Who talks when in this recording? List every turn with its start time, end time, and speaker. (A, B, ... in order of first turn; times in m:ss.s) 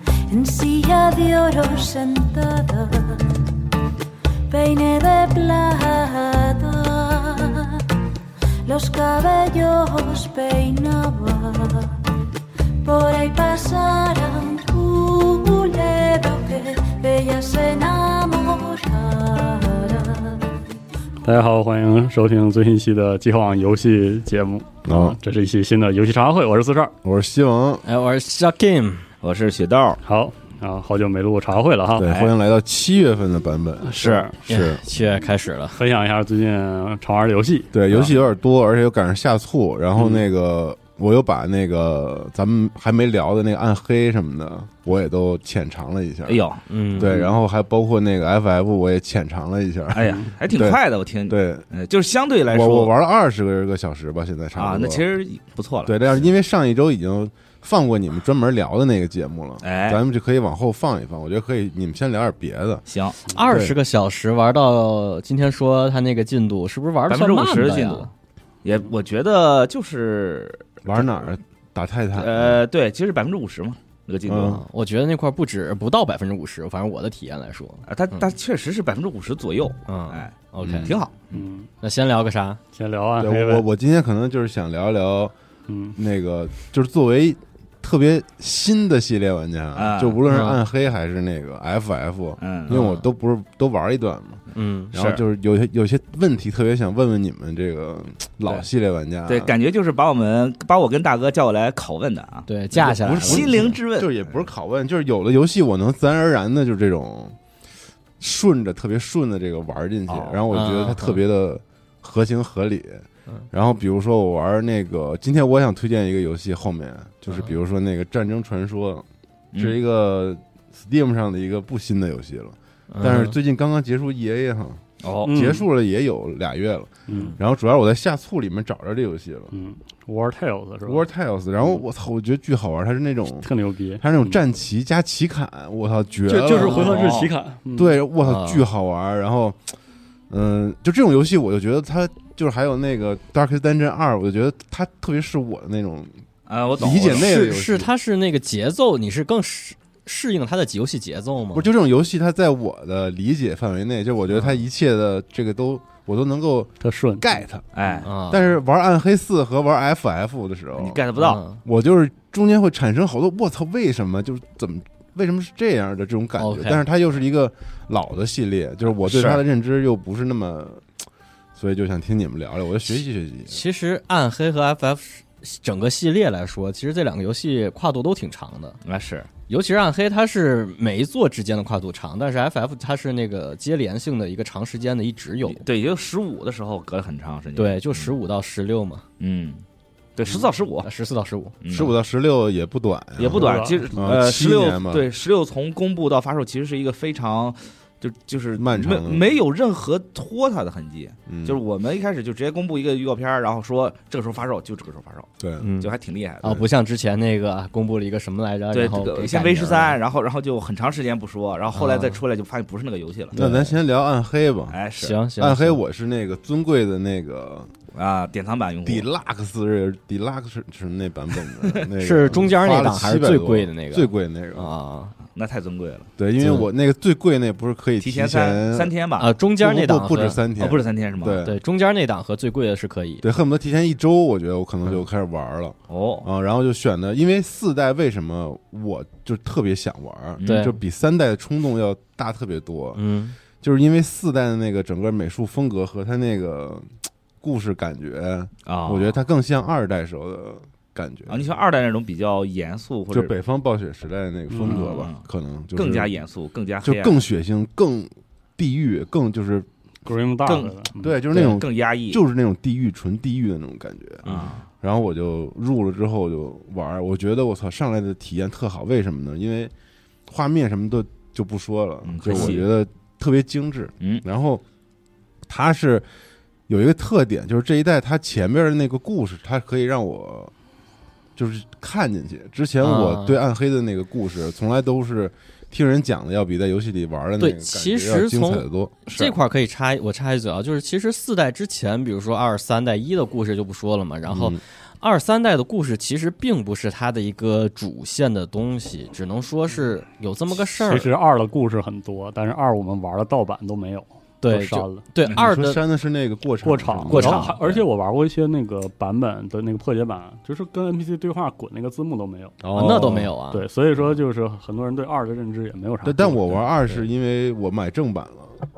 0:00.3-0:03.5 A
0:04.5-0:07.9 A
0:08.6-0:12.0 A
0:12.8-0:20.5 A
0:21.2-0:27.0 B
0:24.8-0:25.2 C
0:27.0-0:27.8 C
0:27.8-0:29.0 D
0:29.2-0:30.0 E
0:30.0-0:32.1 B
0:32.0-0:34.8 C
0:32.1-0:32.3 E
0:33.8-0:34.3 E
0:34.5-0:35.8 D
0:35.7-0:37.7 B
0:37.7-0:51.6 C
0:46.3-0:46.6 E
0:46.7-0:47.1 D
0:49.9-0:52.9 E
0:52.5-0:55.0 C
0:54.6-0:56.3 E
0:55.9-1:02.8 C
0:59.6-1:00.0 E
1:02.9-1:03.2 E
1:03.3-1:08.1 D
1:03.5-1:03.8 C
1:07.1-1:08.1 E
1:08.6-1:11.2 E
1:10.8-1:12.6 C
1:12.2-1:14.6 E
1:14.3-1:14.6 C
1:14.5-1:18.3 D
1:17.9-1:21.3 E
1:19.9-1:21.0 D
1:20.6-1:20.9 C
1:21.3-1:21.7 B
1:21.8-1:22.6 D
1:22.7-1:23.7 B
1:23.2-1:25.3 C
1:25.7-1:26.0 B
1:26.0-1:39.5 C
1:29.8-1:30.2 E
1:30.3-1:30.6 D
1:32.4-1:32.8 E
1:32.7-1:33.0 D
1:34.5-1:34.9 D
1:34.9-1:35.2 E
1:39.3-1:44.4 E
1:42.5-1:43.7 D
1:42.7-1:47.4 C
1:48.2-2:09.5 C
1:50.1-1:50.4 E
1:50.5-1:51.2 D
1:59.5-1:59.8 E
2:02.9-2:03.4 D
2:05.0-2:05.5 E
2:05.2-2:05.6 B
2:07.1-2:07.4 B
2:09.5-2:11.0 B
2:10.9-2:17.2 C
2:13.4-2:14.4 B
2:16.3-2:18.0 B
2:16.6-2:16.9 D
2:16.8-2:17.3 E
2:17.7-2:19.6 C
2:18.2-2:18.6 D
2:20.3-2:26.1 C
2:26.5-2:27.3 E
2:26.8-2:27.9 C
2:26.8-2:31.7 D
2:31.5-2:41.0 C
2:36.8-2:37.2 B
2:37.7-2:38.1 E
2:38.0-2:38.6 D
2:40.8-2:41.4 E
2:41.2-2:41.6 D
2:41.6-2:50.9 C
2:46.4-2:46.8 D
2:49.0-2:49.4 E
2:51.6-2:53.6 C
2:53.5-2:58.8 D
2:58.8-2:59.3 E
2:59.5-3:05.6 D
3:05.4-3:08.2 E
3:07.6-3:09.0 D
3:09.2-3:09.6 E
3:10.2-3:10.9 E
3:10.8-3:11.6 D
3:11.6-3:12.0 E
3:11.7-3:15.1 C
3:13.2-3:26.7 E
3:13.3-3:13.9 B
3:18.6-3:19.2 C
3:21.3-3:21.6 C
3:25.4-3:25.7 C
3:25.6-3:25.9 D
3:26.4-3:30.0 D
3:28.7-3:33.4 E
3:31.8-3:32.2 D
3:33.3-3:34.8 C
3:33.4-3:33.8 D
3:34.7-3:35.2 E
3:35.0-3:35.8 D
3:35.4-3:37.7 C
3:37.9-3:39.1 E
3:38.8-3:44.7 C
3:42.0-3:45.2 D
3:45.3-3:46.1 E
3:46.2-3:48.9 C
3:46.4-3:46.7 D
3:48.0-3:49.3 E
3:49.2-3:50.4 D
3:49.6-3:51.6 C
3:50.6-3:51.4 E
3:51.4-3:53.2 D
3:53.2-4:03.0 C
3:55.9-3:56.3 E
4:00.4-4:00.7 E
4:00.4-4:00.8 D
4:03.0-4:03.4 D
4:03.6-4:06.9 C
4:07.4-4:11.5 C
4:08.7-4:09.1 E
4:11.3-4:13.3 E
4:13.1-4:16.1 C
4:14.5-4:14.9 B
4:14.6-4:15.2 E
4:15.8-4:17.2 E
4:16.8-4:19.7 C
4:20.0-4:21.2 B
4:20.4-4:20.7 E
4:21.0-4:29.7 C
4:21.3-4:22.2 E
4:24.2-4:24.6 E
4:24.3-4:24.5 D
4:30.3-4:34.6 C
4:32.0-4:32.7 E
4:35.5-4:36.1 C
4:36.7-4:40.5 C
4:41.4-4:49.0 C
4:42.8-4:43.4 D
4:47.4-5:01.1 D
4:49.1-4:49.4 E
4:54.3-4:54.6 C
5:00.6-5:05.0 B
5:04.4-5:05.8 D
5:05.3-5:07.7 C
5:06.6-5:16.6 B
5:07.1-5:07.5 D
5:12.6-5:13.4 C
5:12.8-5:13.7 D
5:16.0-5:18.6 C